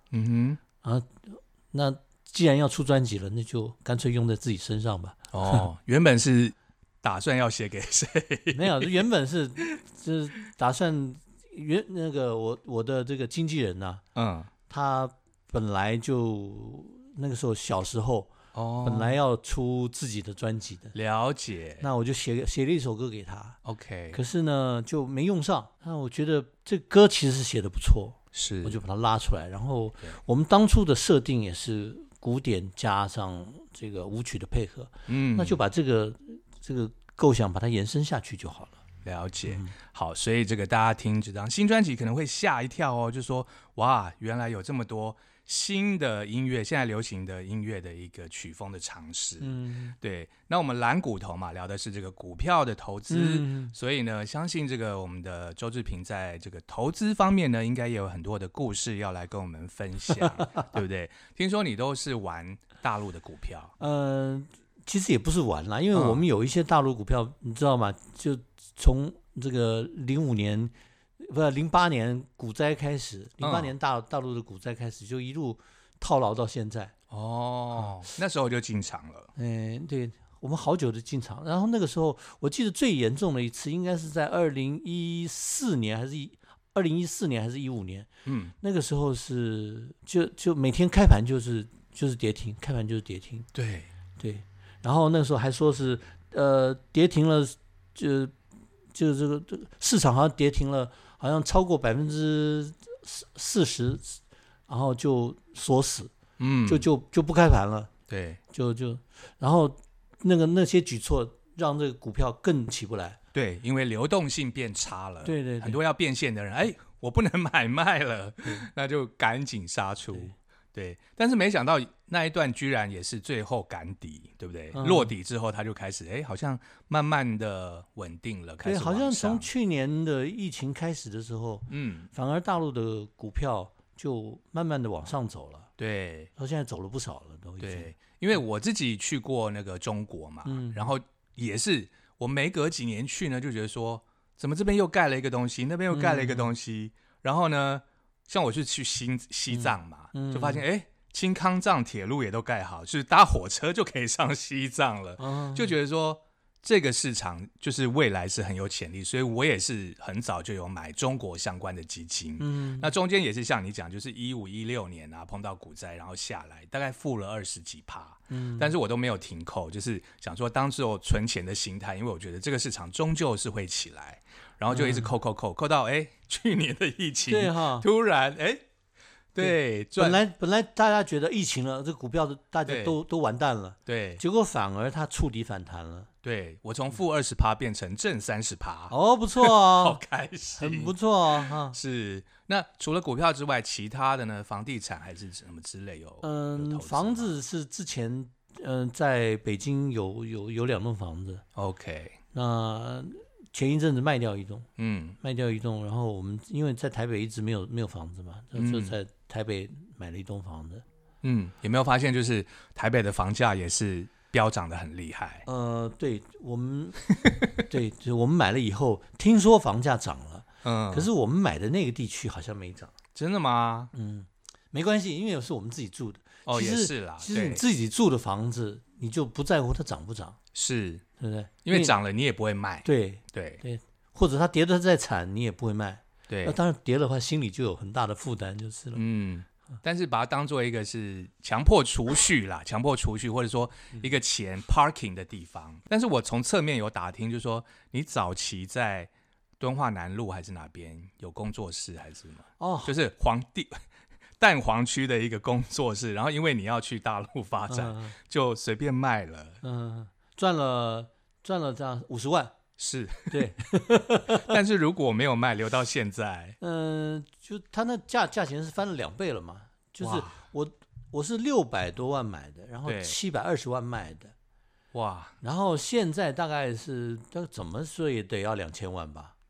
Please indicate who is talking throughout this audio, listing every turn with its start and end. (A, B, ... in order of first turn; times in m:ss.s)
0:00.1-0:00.6 A
0:00.8-0:05.6 B
0:05.3-0:09.0 A
0:08.5-0:14.0 B
0:14.2-0:14.5 A
0:14.7-0:18.3 B
0:18.5-0:19.2 A
0:18.8-0:20.9 B
0:20.9-0:21.8 A
0:21.8-0:23.6 B
0:23.6-0:24.2 A
0:24.1-0:38.8 B
0:28.3-0:28.8 A
0:35.1-0:35.6 A
0:39.0-1:03.7 A
0:39.5-0:39.7 B
0:49.4-0:50.0 B
0:53.1-0:53.7 B
1:03.8-1:16.9 B
1:05.9-1:06.2 A
1:13.4-1:13.7 A
1:17.1-1:19.3 A
1:19.4-1:28.1 B
1:28.3-1:28.5 A
1:28.6-1:33.5 B
1:33.5-1:33.9 A
1:34.2-1:38.4 B
1:38.9-1:46.1 B
1:46.4-1:46.9 A
1:46.7-1:47.9 B
1:48.1-1:48.4 A
1:48.5-1:53.2 B
1:53.3-2:09.5 A
1:55.2-1:55.8 B
2:04.7-2:05.1 B
2:08.6-2:15.7 B
2:11.7-2:12.1 A
2:15.8-2:16.3 A
2:16.4-2:17.9 B
2:17.6-2:58.6 A
2:20.4-2:20.9 B
2:25.9-2:26.5 B
2:29.5-2:30.6 B
2:35.2-2:35.7 B
2:42.4-2:42.9 B
2:48.3-2:48.7 B
2:54.7-2:55.1 B
2:57.3-2:57.8 B
2:59.3-3:00.2 A
2:59.4-3:06.1 B
3:02.7-3:03.0 A
3:03.8-3:04.2 A
3:06.2-3:17.4 A
3:08.9-3:10.0 B
3:10.6-3:11.8 B
3:16.2-3:21.4 B
3:21.6-3:22.2 A
3:22.3-3:24.7 B
3:24.8-3:25.2 A
3:25.2-3:30.8 B
3:28.6-3:29.0 A
3:31.2-3:35.4 A
3:35.5-3:37.0 B
3:37.2-3:37.6 A
3:37.6-3:42.9 B
3:40.6-3:41.1 A
3:43.1-3:43.9 A
3:43.9-3:50.4 B
3:46.4-3:47.6 A
3:50.5-3:51.0 A
3:51.2-3:52.0 B
3:51.6-3:53.6 A
3:52.8-3:59.0 B
3:56.3-3:56.6 A
3:59.0-4:13.8 A
4:12.6-4:12.9 B
4:14.4-4:19.6 A
4:17.7-4:18.1 B
4:19.6-4:22.5 B
4:22.8-4:23.4 A
4:23.3-4:24.6 B
4:24.3-4:26.6 A
4:26.6-4:34.3 B
4:30.0-4:30.4 A
4:32.8-4:33.2 A
4:34.9-4:35.4 A
4:35.4-4:39.3 B